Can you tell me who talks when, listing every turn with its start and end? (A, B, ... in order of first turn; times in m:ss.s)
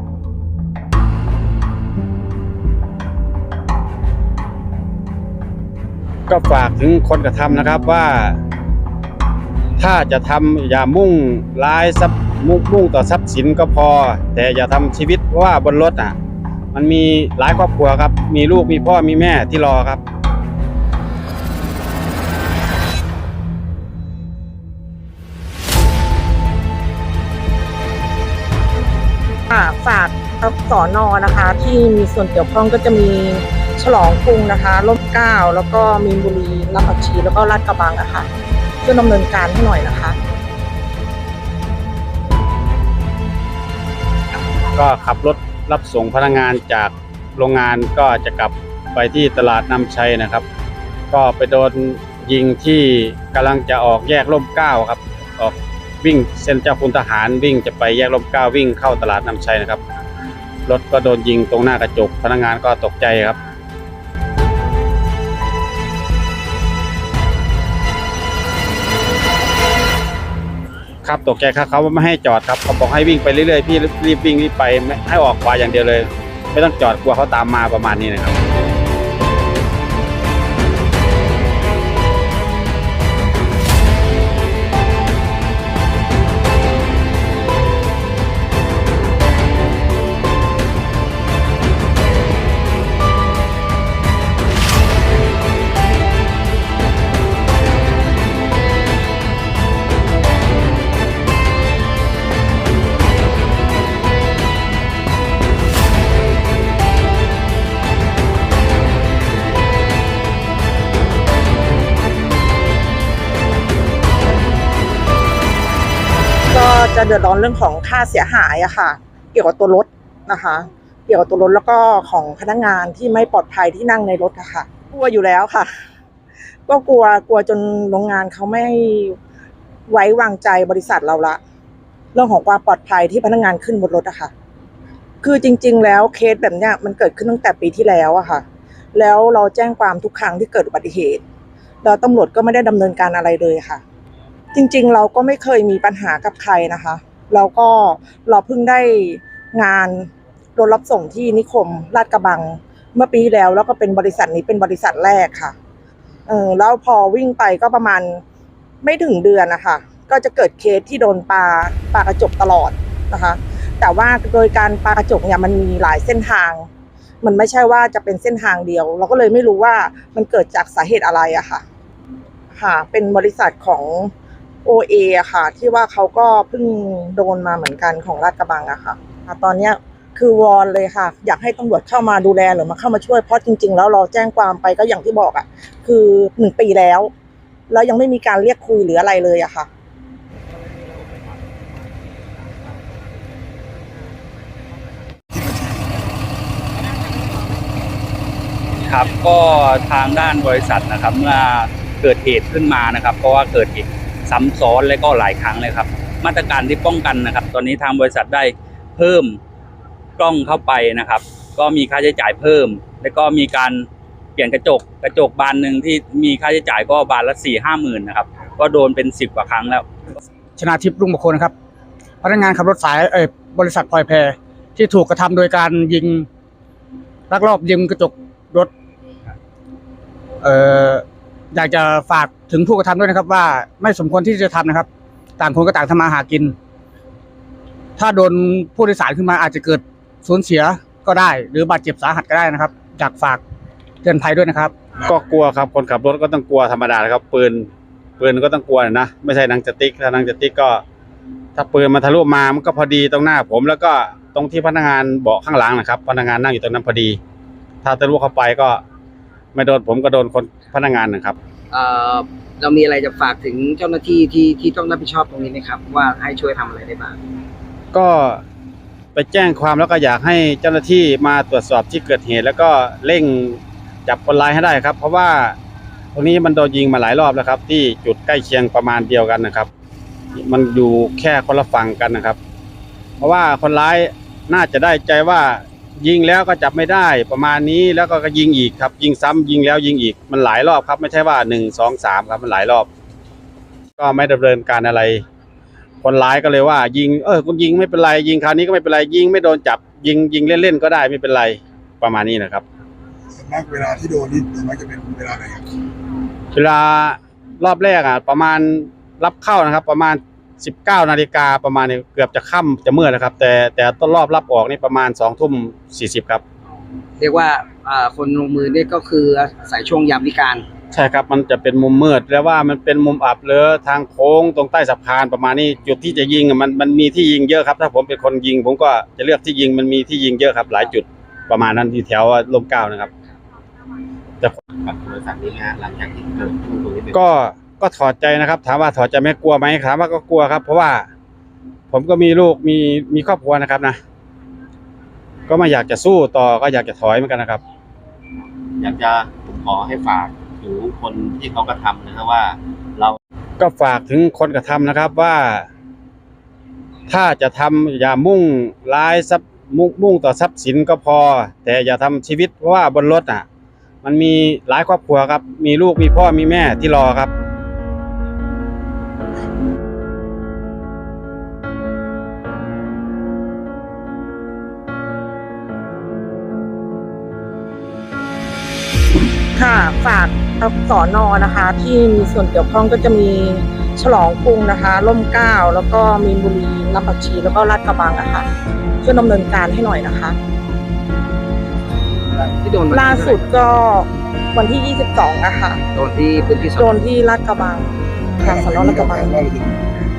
0:06.3-0:08.4 A
0:09.8-0:16.1 A
0:16.7-0:20.0 A
0:29.5-0:38.3 B
0:38.8-0:40.2 B
0:44.7-0:50.4 A
0:51.1-0:59.8 A
1:00.7-1:03.4 A
1:11.0-1:18.3 A
1:56.5-2:05.7 B
2:06.7-2:09.2 B
2:09.9-2:11.4 B
2:12.1-2:14.3 B
2:15.2-2:21.2 B
2:21.8-2:23.8 B
2:24.5-2:35.5 B
2:36.3-2:38.2 B
2:38.8-2:46.7 B
2:47.2-2:51.6 B
2:52.5-2:54.1 B
2:54.6-3:07.1 B
3:07.7-3:09.7 B
3:18.8-3:29.4 C
3:30.2-3:39.8 C
3:40.6-3:41.5 D
3:42.2-3:46.3 D
3:47.3-3:48.7 D
3:50.4-3:56.6 D
3:58.0-4:03.4 D
4:04.0-4:04.7 D
4:05.0-4:07.7 A
4:08.2-4:10.8 A
4:11.6-4:17.2 A
4:17.8-4:18.8 A
4:19.5-4:21.4 A
4:21.7-4:27.2 E
4:27.9-4:28.4 A
4:29.1-4:35.5 A
4:36.1-4:39.7 A
4:40.3-4:42.4 A
4:43.2-4:52.9 A
4:54.0-4:55.2 A
4:56.0-5:02.6 A
5:03.4-5:05.7 F
5:06.5-5:16.4 A
5:17.2-5:20.7 E
5:20.9-5:33.1 A
5:34.8-5:37.2 G
5:37.1-5:41.0 A
5:41.9-5:44.0 A
5:45.5-5:47.6 A
5:48.8-5:53.2 G
5:53.6-5:55.7 A
5:57.1-6:03.4 A
6:04.0-6:07.3 A
6:19.5-6:28.5 B
6:29.0-6:30.4 B
6:32.4-6:33.5 E
6:32.9-6:35.8 B
6:35.9-6:36.9 E
6:36.8-6:37.9 B
6:38.4-6:39.4 B
6:38.7-6:39.9 F